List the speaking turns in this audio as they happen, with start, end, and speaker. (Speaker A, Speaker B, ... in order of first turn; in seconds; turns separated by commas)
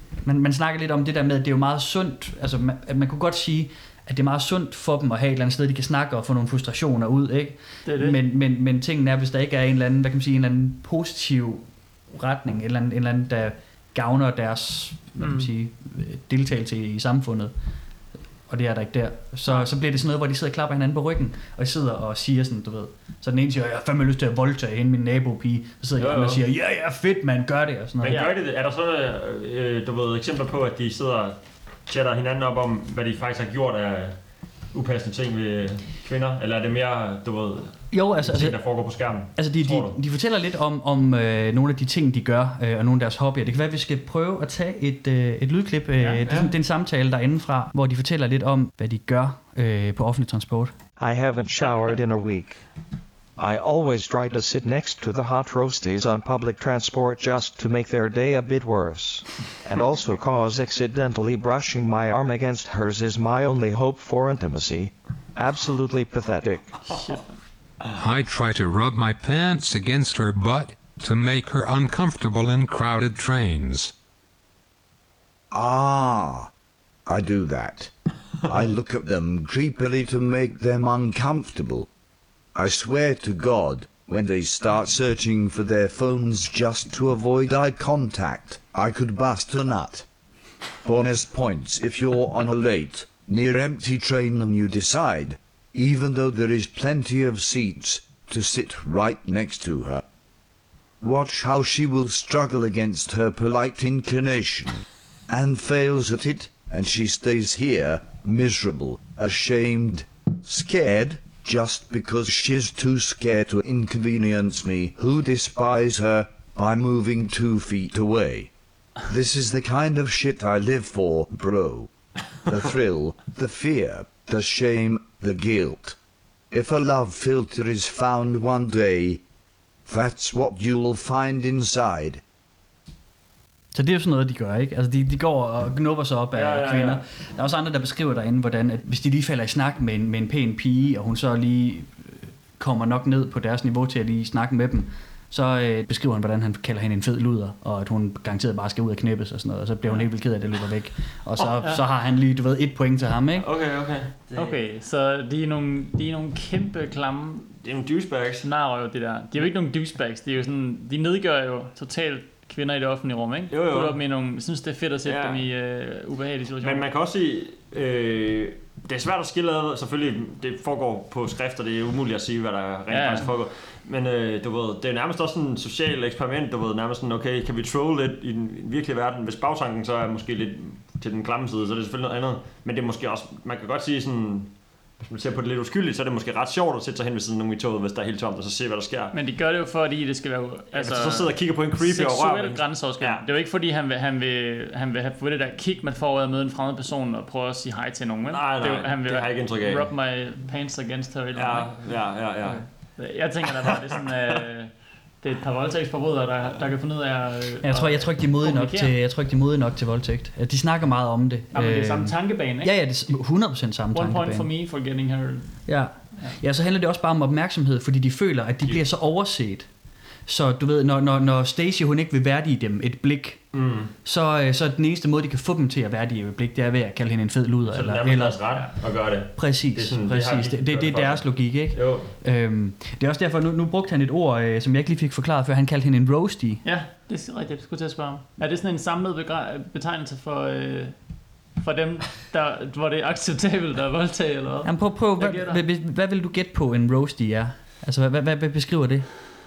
Speaker A: 0.2-17.5, Speaker B: 7.8-8.2, Speaker B: 15.2-15.5, Speaker A: 18.5-28.3, Speaker C: 26.0-26.4, Speaker C: 28.0-40.0, Speaker B: 28.1-28.3, Speaker A: 37.9-50.8, Speaker B: 46.0-46.3, Speaker C: 46.3-46.5, Speaker D: 51.0-52.6, Speaker D: 53.4-66.8, Speaker B: 67.0-67.3, Speaker E: 67.9-73.9, Speaker F: 75.5-76.5, Speaker F: 77.1-81.9, Speaker F: 82.5-90.1, Speaker F: 90.8-100.0, Speaker F: 101.0-118.5, Speaker F: 119.0-121.9, Speaker F: 122.5-126.0, Speaker F: 126.5-129.2, Speaker F: 129.9-132.2, Speaker A: 133.7-153.5, Speaker C: 136.3-137.0, Speaker B: 151.4-151.8, Speaker C: 153.4-154.5, Speaker B: 154.3-157.5, Speaker C: 157.6-158.5, Speaker B: 158.4-166.8, Speaker C: 163.5-164.0, Speaker C: 165.1-165.4, Speaker C: 166.6-189.1, Speaker B: 172.9-173.3, Speaker B: 189.1-208.9, Speaker C: 190.7-193.2, Speaker C: 198.3-199.9, Speaker C: 201.3-203.0, Speaker A: 207.6-214.5, Speaker B: 211.5-213.0, Speaker B: 213.9-216.4, Speaker A: 215.7-219.7, Speaker A: 220.3-236.7, Speaker C: 223.5-223.9, Speaker C: 227.7-232.1, Speaker B: 236.6-245.6, Speaker A: 244.7-249.1